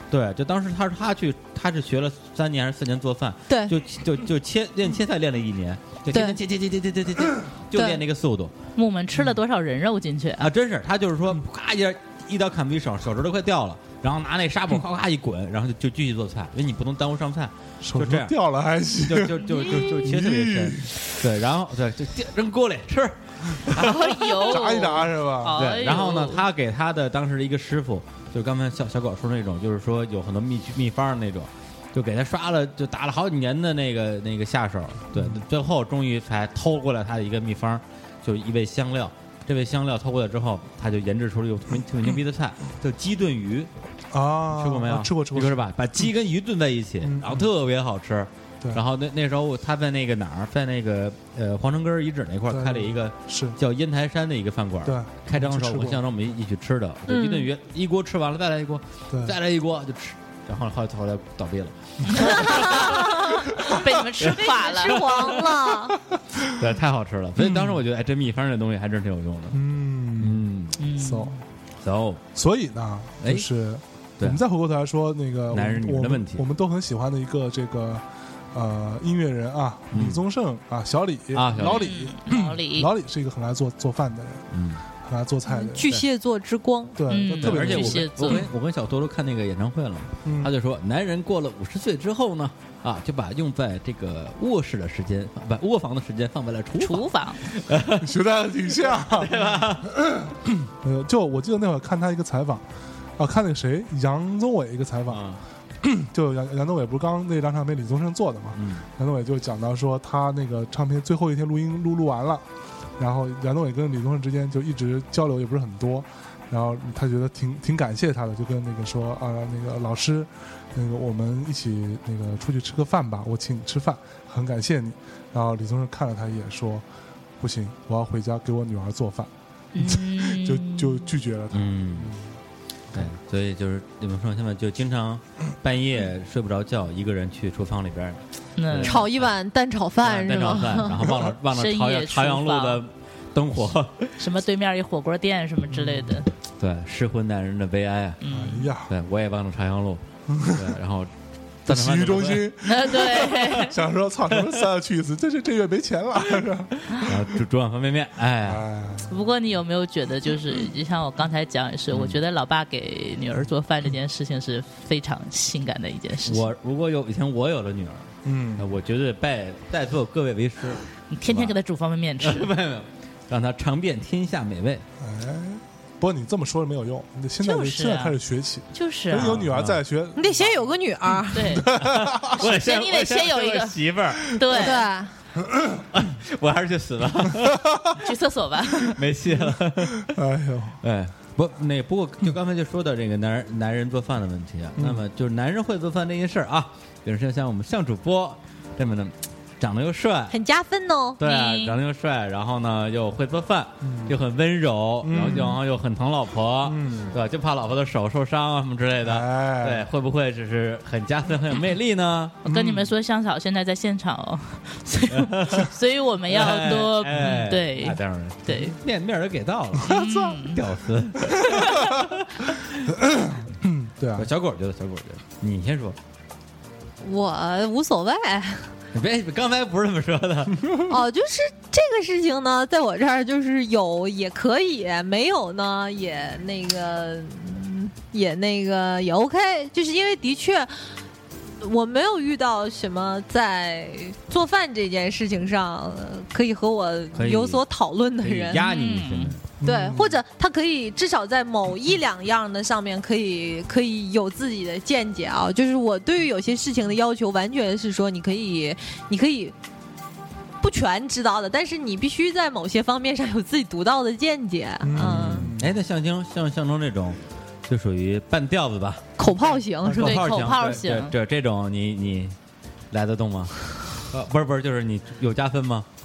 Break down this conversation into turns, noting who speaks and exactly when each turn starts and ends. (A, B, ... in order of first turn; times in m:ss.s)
0:00.1-0:08.5 A
0:06.1-0:06.4 B
0:07.7-0:08.0 B
0:08.8-0:10.5 C
0:10.4-0:18.4 A
0:17.8-0:20.9 D
0:19.0-0:24.7 A
0:23.8-0:26.4 C
0:24.4-0:25.6 D
0:25.6-0:43.7 A
0:35.1-0:35.4 D
0:44.1-0:45.6 D
0:44.5-1:04.4 A
0:47.0-0:47.5 D
0:52.5-0:53.6 D
0:54.8-0:56.0 D
0:57.1-0:57.5 B
0:59.1-0:59.4 D
1:02.1-1:05.4 C
1:02.2-1:03.5 B
1:04.3-1:06.0 B
1:06.4-1:09.6 A
1:07.4-1:07.8 D
1:09.5-1:11.4 D
1:10.2-1:10.8 A
1:10.8-1:11.3 C
1:11.8-1:12.2 A
1:12.4-1:24.4 D
1:15.5-1:16.4 A
1:19.9-1:20.2 A
1:21.4-1:22.0 A
1:21.6-1:22.9 C
1:24.5-1:24.8 A
1:25.0-1:26.0 D
1:25.5-1:27.0 B
1:27.0-1:28.5 D
1:27.1-1:28.5 C
1:27.3-1:38.1 A
1:30.2-1:30.5 D
1:36.8-1:37.4 C
1:38.0-1:42.7 D
1:38.8-1:39.9 A
1:43.2-1:45.2 D
1:45.1-1:45.4 A
1:45.8-1:52.4 D
1:48.6-1:48.8 A
1:53.0-2:06.8 D
2:07.4-2:12.2 D
2:09.7-2:11.1 C
2:11.5-2:12.1 A
2:12.9-2:19.3 A
2:18.6-2:19.0 C
2:18.8-2:21.0 B
2:20.0-2:24.2 A
2:21.5-2:22.8 C
2:24.2-2:26.3 C
2:25.7-2:26.1 D
2:26.6-2:28.2 A
2:28.2-2:28.7 C
2:28.2-2:28.9 D
2:28.9-2:31.1 A
2:30.3-2:30.7 D
2:31.6-2:32.6 A
2:31.7-2:37.2 D
2:32.6-2:33.8 C
2:37.0-2:38.6 A
2:38.4-2:39.1 D
2:39.1-2:46.5 C
2:41.9-2:42.2 A
2:46.3-2:51.6 A
2:48.2-2:48.7 D
2:51.1-2:52.5 C
2:52.2-2:54.8 A
2:55.0-3:00.7 D
2:57.4-2:58.2 C
2:58.7-2:59.4 C
2:59.1-2:59.8 A
3:00.2-3:01.5 B
3:01.2-3:02.4 D
3:01.3-3:04.9 C
3:01.7-3:04.3 A
3:04.5-3:05.1 B
3:05.6-3:05.8 D
3:05.9-3:07.7 A
3:07.4-3:07.9 D
3:08.0-3:09.0 C
3:08.8-3:10.1 A
3:09.4-3:10.8 D
3:10.8-3:20.4 A
3:14.8-3:15.0 D
3:20.3-3:21.2 B
3:21.2-3:32.4 A
3:21.2-3:21.8 C
3:23.8-3:24.2 D
3:25.0-3:25.6 D
3:26.6-3:27.2 D
3:29.0-3:29.9 D
3:32.4-3:32.9 D
3:32.4-3:38.7 C
3:35.1-3:35.7 A
3:36.3-3:42.9 A
3:39.8-3:40.3 D
3:39.8-3:40.6 C
3:41.4-3:41.7 D
3:42.9-3:44.3 D
3:44.1-3:46.0 A
3:47.0-3:48.7 B
3:48.9-3:50.8 A
3:50.8-4:00.7 B
4:01.6-4:08.7 B
4:07.1-4:07.6 A
4:08.2-4:09.4 A
4:08.6-4:09.4 C
4:09.6-4:10.2 D
4:09.6-4:19.6 B
4:20.6-4:25.5 B
4:24.8-4:25.8 D
4:25.0-4:29.1 A
4:29.2-4:30.2 B
4:29.9-4:32.4 A
4:30.0-4:31.1 C
4:32.9-4:35.9 A